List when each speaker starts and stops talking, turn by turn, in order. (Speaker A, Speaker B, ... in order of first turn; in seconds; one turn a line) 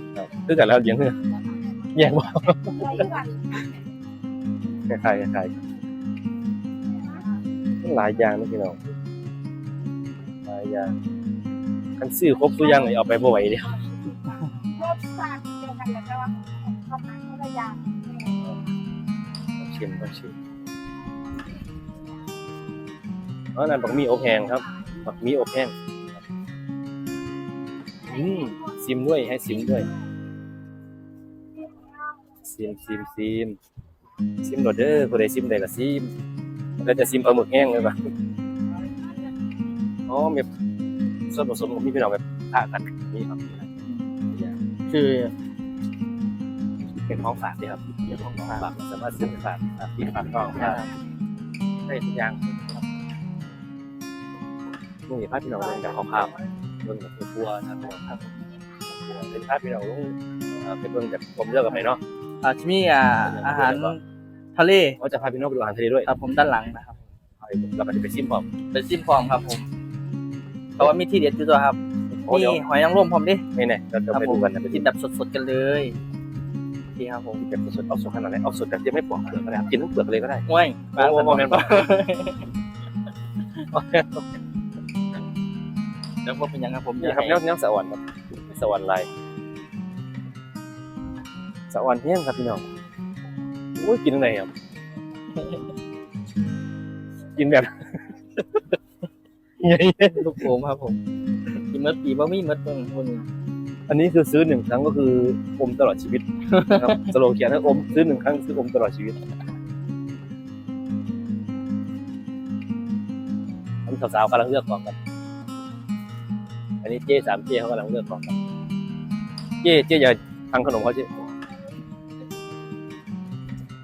Speaker A: 0.2-1.2
Speaker A: 1.9-3.2
Speaker B: 3.1-3.6
Speaker A: 4.9-5.5
Speaker A: 7.8-8.8
Speaker A: 10.4-10.9
Speaker A: 12.0-13.9
Speaker B: 14.7-16.4
Speaker B: 16.9-18.0
Speaker A: 19.6-20.3
Speaker A: 23.5-25.7
Speaker A: 28.0-29.9
Speaker A: 32.4-33.6
Speaker A: 34.4-36.1
Speaker A: 36.8-37.9
Speaker A: 40.1-40.5
Speaker A: 41.3-43.7
Speaker C: 43.9-44.1
Speaker A: 44.3-44.5
Speaker C: 44.9-45.3
Speaker A: 47.0-50.8
Speaker C: 48.1-48.6
Speaker C: 50.6-50.9
Speaker A: 51.9-52.8
Speaker A: 55.1-56.3
Speaker A: 56.8-58.0
Speaker C: 58.1-58.4
Speaker A: 58.9-62.0
Speaker C: 62.4-64.0
Speaker A: 63.2-63.9
Speaker C: 64.5-65.0
Speaker A: 65.0-66.1
Speaker C: 66.0-67.0
Speaker A: 67.4-68.5
Speaker C: 68.7-69.6
Speaker C: 70.8-73.4
Speaker A: 72.1-72.6
Speaker A: 73.5-74.9
Speaker C: 74.1-75.9
Speaker C: 76.9-77.4
Speaker A: 77.4-81.9
Speaker C: 80.5-82.4
Speaker A: 83.7-84.3
Speaker C: 86.2-87.4
Speaker A: 87.0-89.1
Speaker A: 91.7-92.6
Speaker A: 93.8-94.5
Speaker C: 95.3-95.6
Speaker A: 97.3-98.7
Speaker A: 99.6-100.5
Speaker C: 100.1-101.0
Speaker C: 101.7-103.2
Speaker A: 103.9-109.2
Speaker C: 106.5-107.1
Speaker A: 113.8-114.9
Speaker A: 116.8-118.3
Speaker A: 119.6-121.1